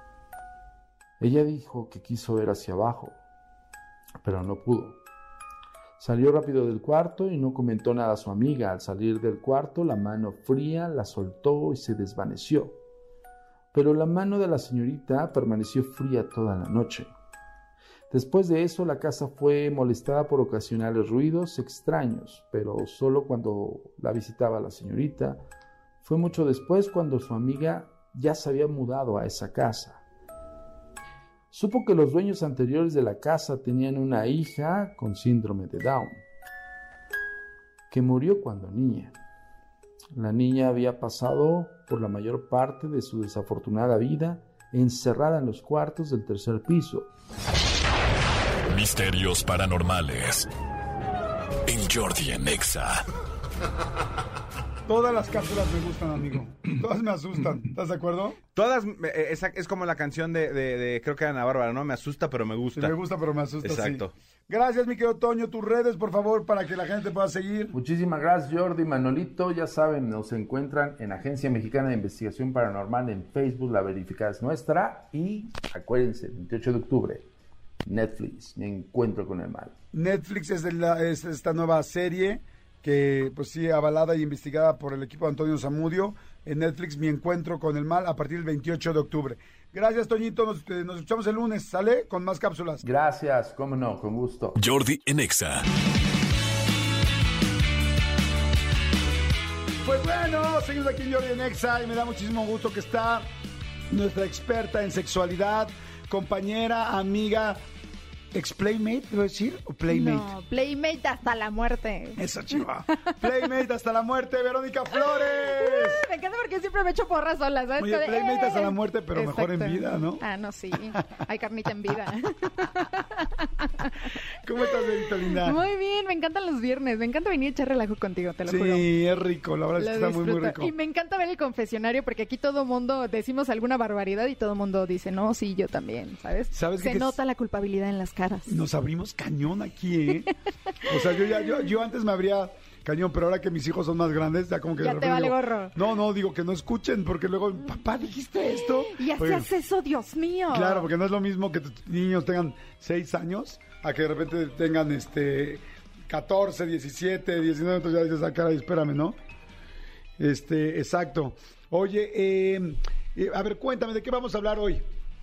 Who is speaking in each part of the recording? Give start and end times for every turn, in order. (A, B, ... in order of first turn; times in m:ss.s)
0:01.2-0:03.2 A
0:04.2-0:05.0 A
0:06.0-0:12.8 A
0:13.7-0:17.1 A
0:18.1-0:25.4 A
0:26.0-0:30.0 A
0:31.5-0:36.2 A
0:37.9-0:39.1 A
0:40.2-0:47.1 A
0:48.7-0:50.5 B
0:51.7-0:53.0 B
0:54.9-0:58.4 C
0:58.6-1:03.0 D
1:02.8-1:07.8 C
1:03.6-1:04.1 D
1:07.7-1:17.2 A
1:17.8-1:19.7 A
1:19.9-1:32.8 C
1:32.8-1:34.6 A
1:34.6-1:35.6 B
1:39.8-1:43.2 C
1:43.9-1:47.6 C
1:48.3-1:50.3 C
1:49.9-1:52.2 E
1:52.2-1:56.0 C
1:55.4-2:04.2 E
1:57.8-2:01.0 C
2:04.4-2:05.6 C
2:04.7-2:08.9 E
2:08.5-2:10.7 C
2:09.8-2:18.6 E
2:16.5-2:17.2 C
2:18.5-2:20.3 C
2:20.8-2:29.5 C
2:24.8-2:25.7 E
2:28.5-2:30.9 E
2:30.5-2:39.2 C
2:40.2-2:44.8 C